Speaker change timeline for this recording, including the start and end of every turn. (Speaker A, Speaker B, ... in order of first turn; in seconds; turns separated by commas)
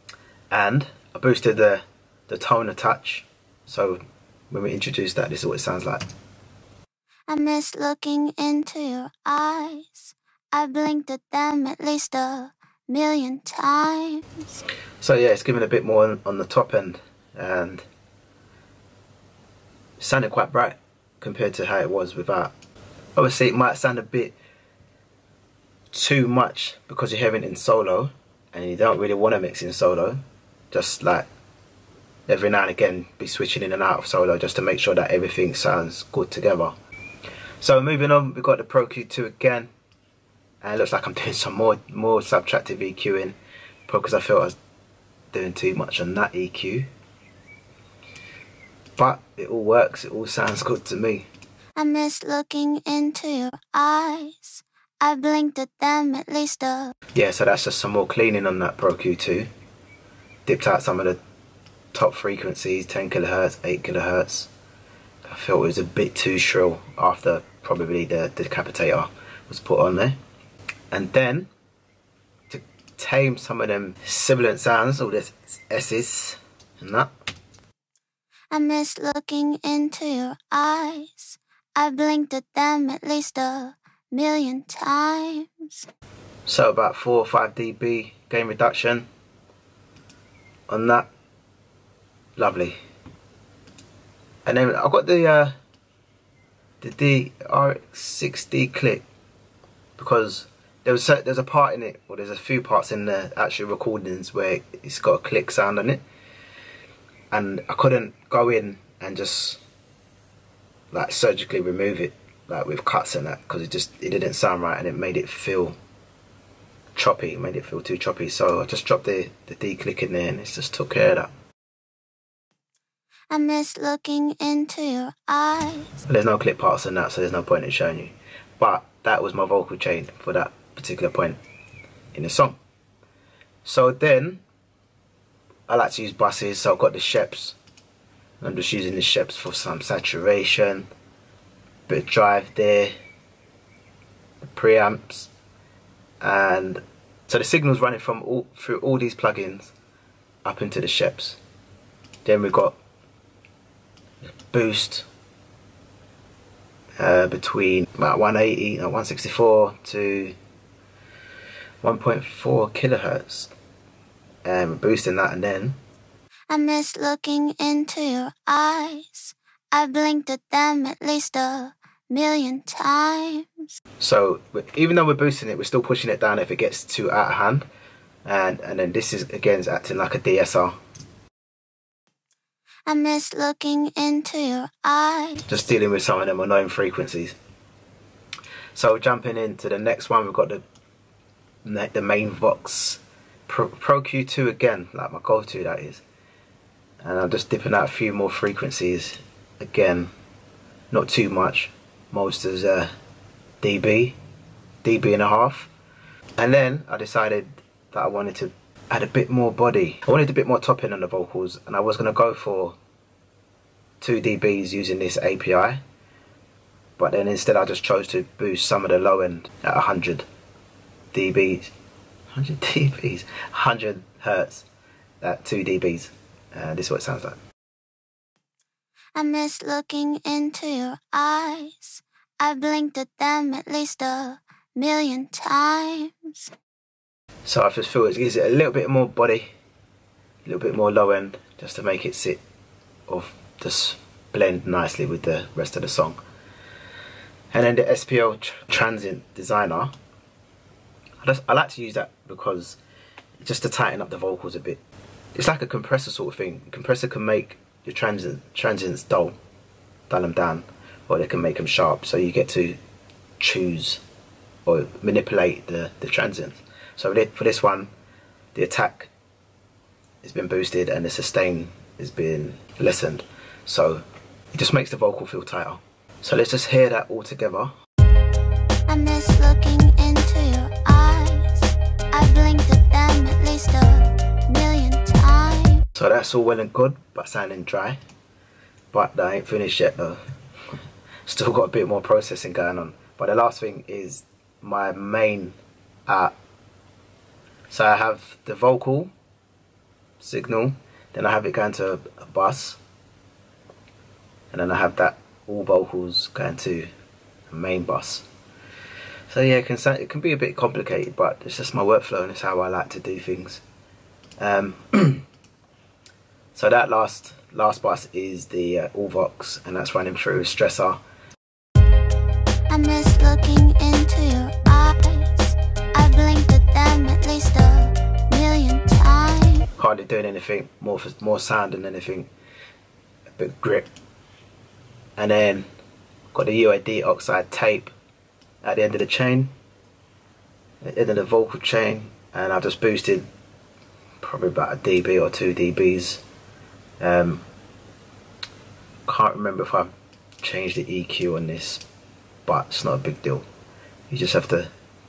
Speaker A: 0.5-6.0, Speaker B: 7.3-14.6, Speaker A: 15.0-17.9, Speaker A: 20.0-22.5, Speaker A: 23.1-24.3, Speaker A: 25.9-30.2, Speaker A: 30.7-31.3, Speaker A: 32.3-36.7, Speaker A: 37.6-39.7, Speaker A: 40.6-43.4, Speaker A: 43.9-44.6, Speaker A: 45.3-46.9, Speaker A: 49.0-51.3, Speaker B: 51.8-56.9, Speaker A: 57.1-59.5, Speaker A: 60.5-61.2, Speaker A: 61.9-64.5, Speaker A: 65.2-70.2, Speaker A: 70.9-71.5, Speaker A: 72.5-77.1, Speaker B: 78.5-85.9, Speaker A: 86.5-89.0, Speaker A: 90.7-91.1, Speaker A: 92.4-92.8, Speaker A: 94.4-95.5, Speaker A: 96.8-99.0, Speaker A: 100.0-106.0, Speaker A: 107.3-109.6, Speaker A: 110.9-115.8, Speaker A: 116.9-121.3, Speaker B: 123.3-125.9, Speaker A: 126.0-131.4, Speaker A: 132.1-132.6, Speaker A: 133.6-134.4, Speaker A: 135.7-137.6, Speaker A: 138.4-140.9, Speaker A: 141.9-142.9, Speaker A: 144.4-145.3, Speaker A: 146.2-149.7, Speaker A: 150.4-151.4, Speaker A: 152.2-152.8, Speaker A: 154.5-155.1, Speaker A: 157.0-160.3, Speaker A: 161.8-163.5, Speaker A: 164.4-165.8, Speaker B: 166.5-173.7, Speaker A: 174.0-177.7, Speaker A: 178.2-180.7, Speaker B: 182.8-185.5, Speaker A: 185.5-187.3, Speaker A: 188.7-190.6, Speaker A: 191.6-196.0, Speaker A: 197.0-200.1, Speaker A: 200.9-202.9, Speaker A: 203.6-204.2, Speaker A: 204.8-205.7, Speaker A: 206.4-212.8, Speaker A: 214.0-215.8, Speaker A: 217.0-220.2, Speaker A: 221.1-221.7, Speaker A: 222.3-224.7, Speaker A: 225.2-227.4, Speaker B: 229.1-236.5, Speaker A: 237.4-239.5, Speaker A: 240.4-242.4, Speaker A: 243.1-246.2, Speaker A: 247.5-249.9, Speaker A: 251.2-252.8, Speaker A: 253.4-254.8, Speaker A: 255.3-259.4, Speaker A: 260.1-262.8, Speaker A: 263.4-264.0, Speaker A: 264.6-267.9, Speaker A: 268.5-269.1, Speaker A: 270.2-274.0, Speaker A: 274.5-277.7, Speaker B: 278.9-285.8, Speaker A: 285.9-288.0, Speaker A: 288.9-290.2, Speaker A: 291.2-295.6, Speaker A: 296.1-296.3, Speaker A: 297.7-299.1, Speaker A: 300.2-302.8, Speaker A: 304.5-306.9, Speaker A: 307.5-308.2, Speaker A: 309.3-313.6, Speaker A: 314.4-315.2, Speaker A: 316.5-321.0, Speaker B: 322.7-329.7, Speaker A: 329.8-332.3, Speaker A: 333.4-333.9, Speaker A: 335.2-335.7, Speaker A: 336.3-337.9, Speaker A: 338.6-339.5, Speaker A: 340.8-343.3, Speaker A: 344.2-346.2, Speaker A: 347.0-347.4, Speaker A: 349.1-349.9, Speaker A: 350.4-351.8, Speaker A: 352.4-353.4, Speaker A: 354.1-354.7